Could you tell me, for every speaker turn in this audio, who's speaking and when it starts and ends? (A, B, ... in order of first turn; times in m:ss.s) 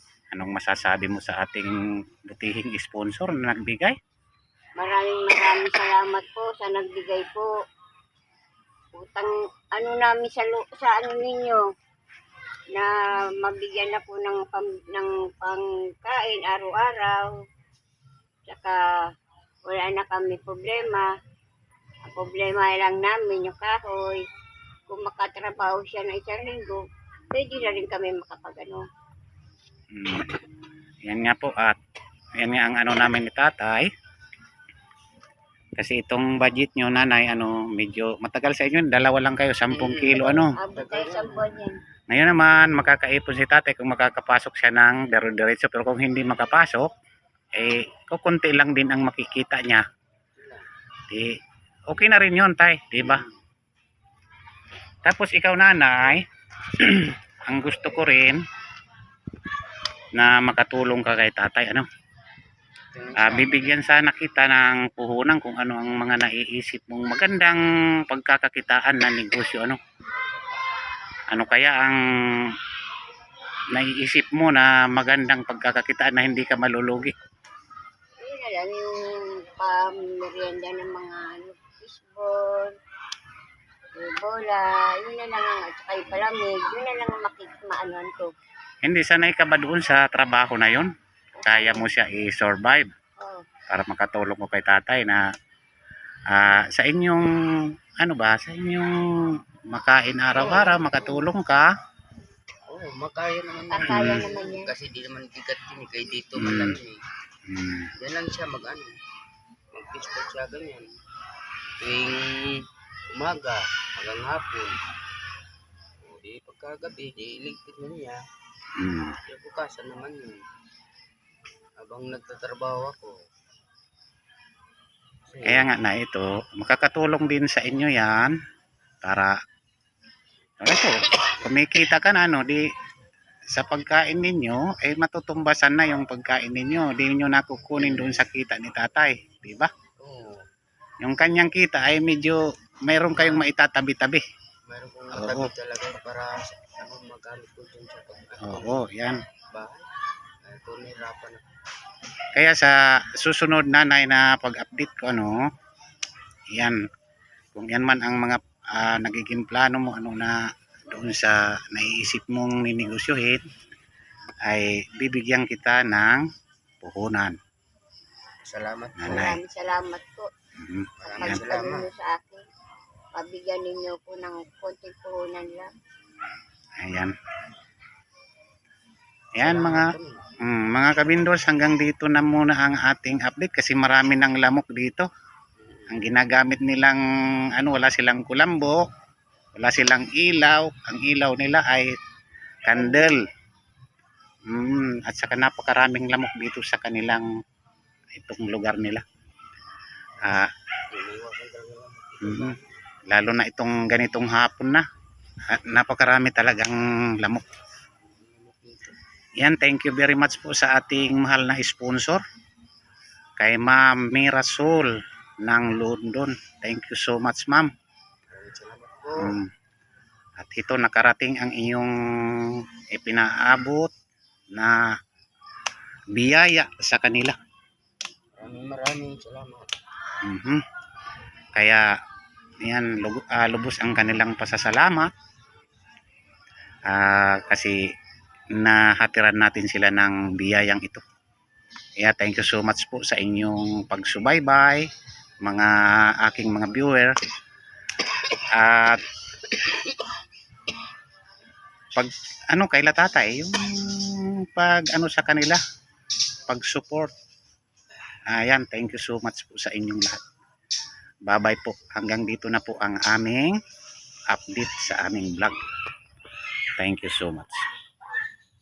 0:00.3-0:01.7 A
0:02.3-0:04.0 A
0:04.8-0:07.5 B
0:08.9-0:11.6 B
0:12.7-0:17.3 B
0:18.5-0:18.8 B
0:19.6-0:21.1 B
0:22.0-0:24.2 B
0:24.9-0:28.8 B
0:29.9-0:30.3 A
0:31.0-0:31.8 A
0:32.4-0:33.9 A
0:35.8-0:40.6 A
0:39.7-0:41.6 C
0:40.5-0:41.8 B
0:42.1-0:46.9 A
0:42.5-0:43.0 C
0:47.5-0:49.8 A
0:50.3-0:50.7 C
0:51.9-0:53.2 A
0:55.0-0:56.2 A
0:56.8-0:58.4 A
1:00.1-1:01.8 A
1:02.9-1:03.8 C
1:03.2-1:09.8 A
1:11.3-1:12.0 A
1:13.7-1:17.2 A
1:18.2-1:22.7 B
1:24.0-1:28.3 B
1:28.8-1:30.9 A
1:31.4-1:31.9 B
1:31.4-1:32.9 A
1:33.2-1:33.4 B
1:33.7-1:35.2 A
1:36.3-1:37.2 A
1:38.0-1:38.9 A
1:39.7-1:41.6 A
1:40.4-1:41.0 C
1:40.4-1:40.8 B
1:42.7-1:47.0 C
1:43.7-1:44.7 B
1:43.8-1:44.2 A
1:46.4-1:46.8 A
1:47.5-1:47.9 A
1:48.0-1:48.9 C
1:49.7-1:50.9 C
1:51.8-1:54.8 C
1:56.0-1:58.2 C
1:58.8-1:59.2 A
1:59.3-2:00.4 C
2:01.8-2:03.1 C
2:05.3-2:05.7 C
2:05.4-2:08.3 A
2:09.0-2:09.3 A
2:10.6-2:12.6 A
2:13.5-2:19.7 A
2:17.8-2:18.2 C
2:20.0-2:20.4 C
2:21.0-2:24.2 A
2:23.1-2:23.5 C
2:24.7-2:28.8 C
2:25.1-2:25.5 A
2:28.4-2:29.2 A
2:29.5-2:29.9 C
2:30.4-2:31.4 C
2:32.3-2:35.4 A
2:37.6-2:40.3 A
2:40.9-2:43.4 A
2:44.4-2:46.2 A
2:46.8-2:47.4 A
2:48.4-2:49.3 C
2:49.0-2:49.4 A
2:49.1-2:50.3 B
2:50.6-2:51.4 A
2:51.0-2:51.9 C
2:51.2-2:52.4 B
2:53.1-2:55.7 B
2:56.8-2:57.1 A
2:59.4-3:05.0 A
2:59.4-3:00.2 C
3:05.6-3:06.1 C
3:05.9-3:07.0 A
3:07.6-3:08.8 A
3:09.6-3:11.9 A
3:12.6-3:13.2 A
3:14.5-3:17.2 A
3:18.1-3:19.0 A
3:20.2-3:20.5 A
3:20.9-3:22.8 C
3:22.2-3:22.5 A
3:23.1-3:24.8 A
3:25.5-3:27.4 A
3:28.0-3:29.0 C
3:29.4-3:32.2 A
3:33.4-3:34.9 A
3:35.4-3:37.7 A
3:38.3-3:39.4 C
3:39.2-3:39.5 A
3:40.4-3:41.9 A
3:42.9-3:43.9 A
3:46.2-3:47.4 A
3:48.4-3:49.7 C
3:50.2-3:50.6 A
3:51.6-3:51.8 A
3:52.6-3:55.1 A
3:56.9-3:57.8 A
3:58.6-4:01.0 A
4:02.0-4:04.8 A
4:05.4-4:07.1 A
4:08.4-4:09.0 A
4:12.0-4:15.6 A
4:16.5-4:17.1 A
4:18.3-4:20.2 A
4:21.3-4:23.5 A
4:24.3-4:25.6 A
4:26.8-4:27.6 A